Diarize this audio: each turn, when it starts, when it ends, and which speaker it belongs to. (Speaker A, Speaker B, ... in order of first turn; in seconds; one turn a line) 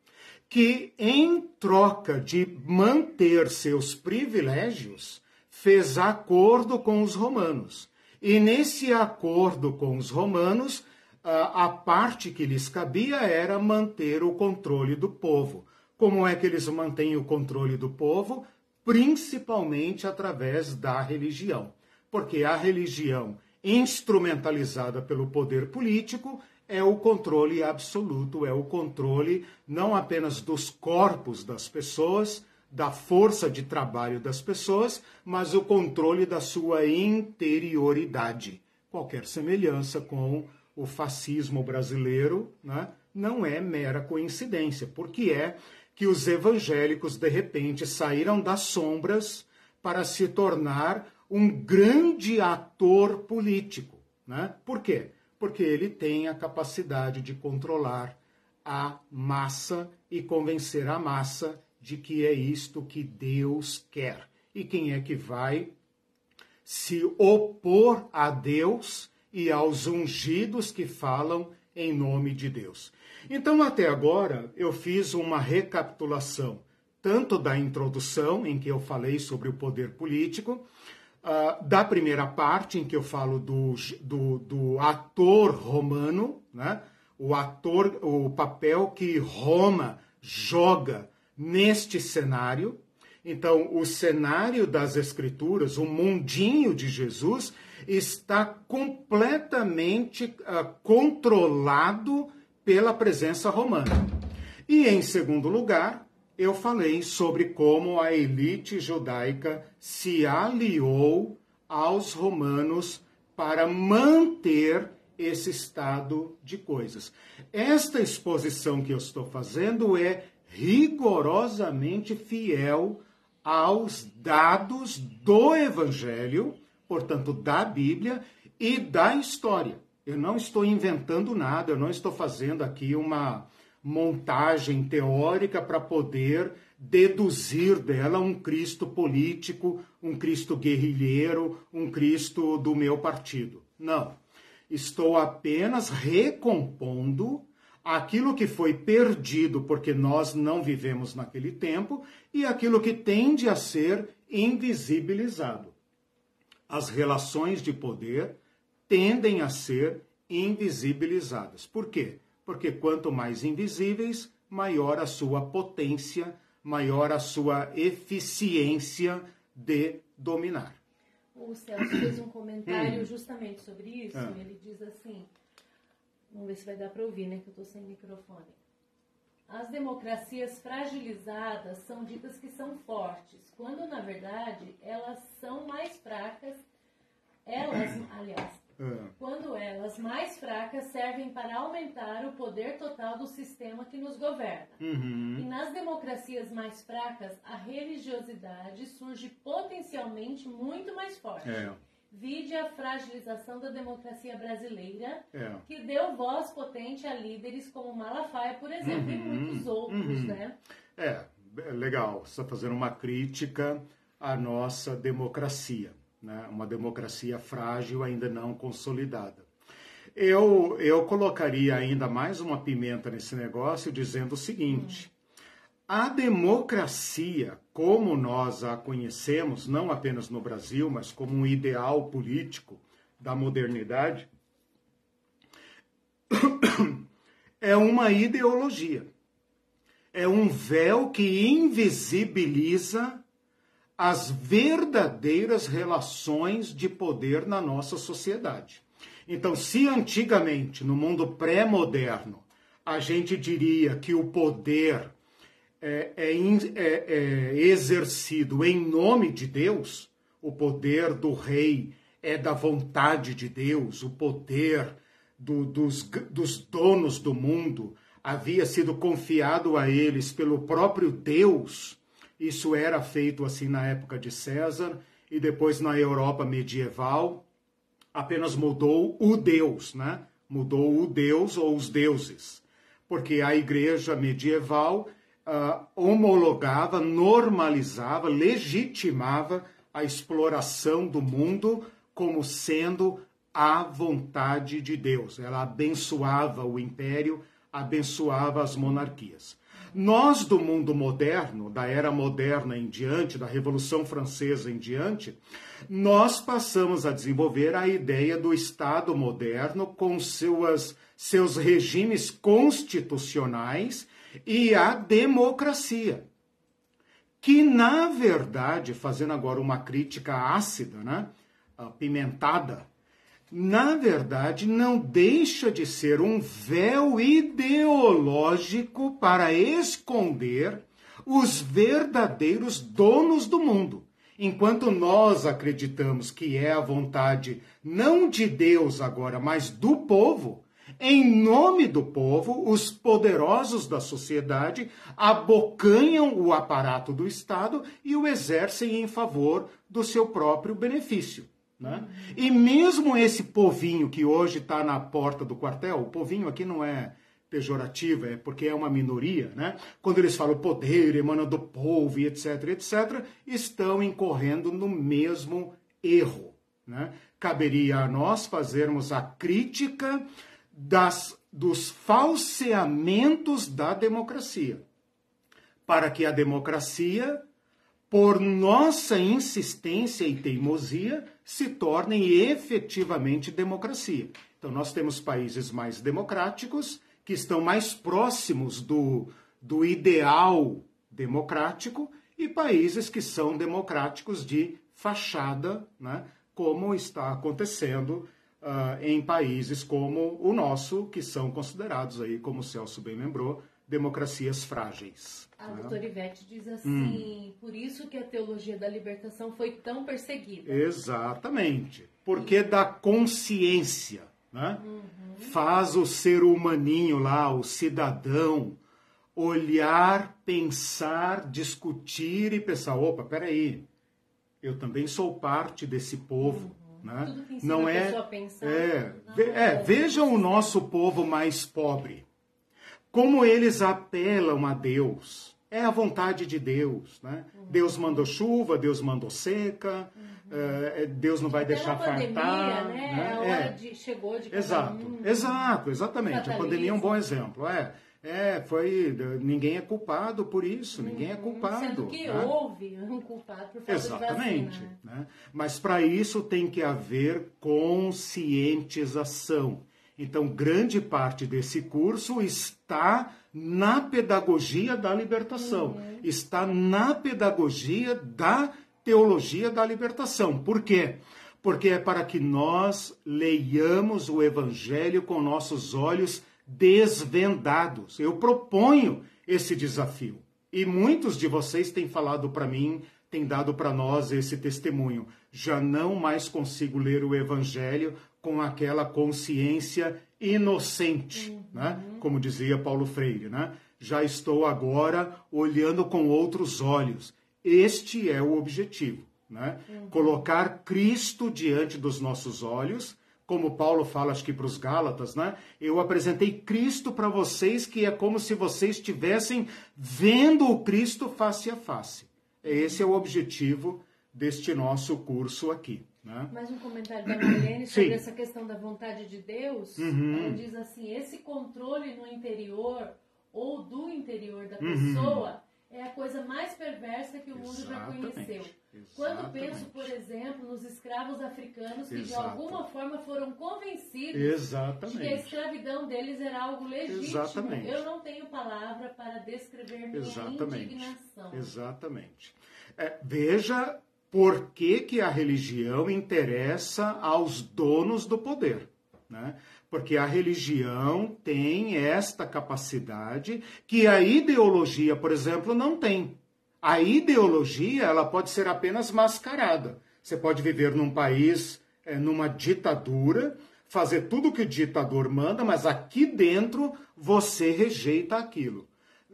Speaker A: 0.5-65.7
Speaker A: 66.7-80.7
Speaker A: 81.2-104.1
Speaker A: 104.7-155.8
Speaker A: 156.7-170.8
Speaker B: 171.3-175.3
Speaker A: 172.7-173.1
Speaker B: 176.3-178.6
Speaker B: 179.5-186.6
Speaker B: 187.4-194.8
Speaker A: 188.8-189.1
Speaker A: 194.8-195.5
Speaker B: 195.4-210.6
Speaker A: 201.4-201.8
Speaker A: 205.3-205.7
Speaker A: 208.8-210.4
Speaker A: 211.0-219.5
Speaker A: 220.2-225.1
Speaker A: 225.9-234.3
Speaker A: 236.3-237.1
Speaker A: 237.6-239.1
Speaker A: 240.1-243.2
Speaker A: 244.0-255.1
Speaker A: 255.8-277.5
Speaker A: 278.1-316.3
Speaker A: 317.4-322.9
Speaker A: 323.5-374.8
Speaker B: 351.8-352.3
Speaker A: 375.9-377.4
Speaker A: 378.1-406.0
Speaker B: 405.6-410.9
Speaker A: 406.9-407.3
Speaker A: 410.7-414.8
Speaker B: 414.8-415.5
Speaker A: 415.4-418.8
Speaker A: 419.4-423.9
Speaker A: 424.6-432.2
Speaker B: 426.4-430.8
Speaker A: 433.1-443.8
Speaker B: 437.6-438.3
Speaker B: 440.3-440.8
Speaker B: 441.5-445.8
Speaker A: 444.5-452.5
Speaker B: 446.3-447.1
Speaker B: 450.9-455.0
Speaker A: 453.9-516.5
Speaker B: 465.6-466.2
Speaker B: 491.5-492.2
Speaker B: 499.9-500.4
Speaker B: 512.6-513.1
Speaker B: 516.5-541.7
Speaker A: 517.5-518.2
Speaker A: 520.0-520.6
Speaker A: 524.8-525.5
Speaker A: 527.5-530.1
Speaker A: 532.1-532.9
Speaker A: 534.3-535.5
Speaker A: 537.1-538.0
Speaker A: 540.1-568.9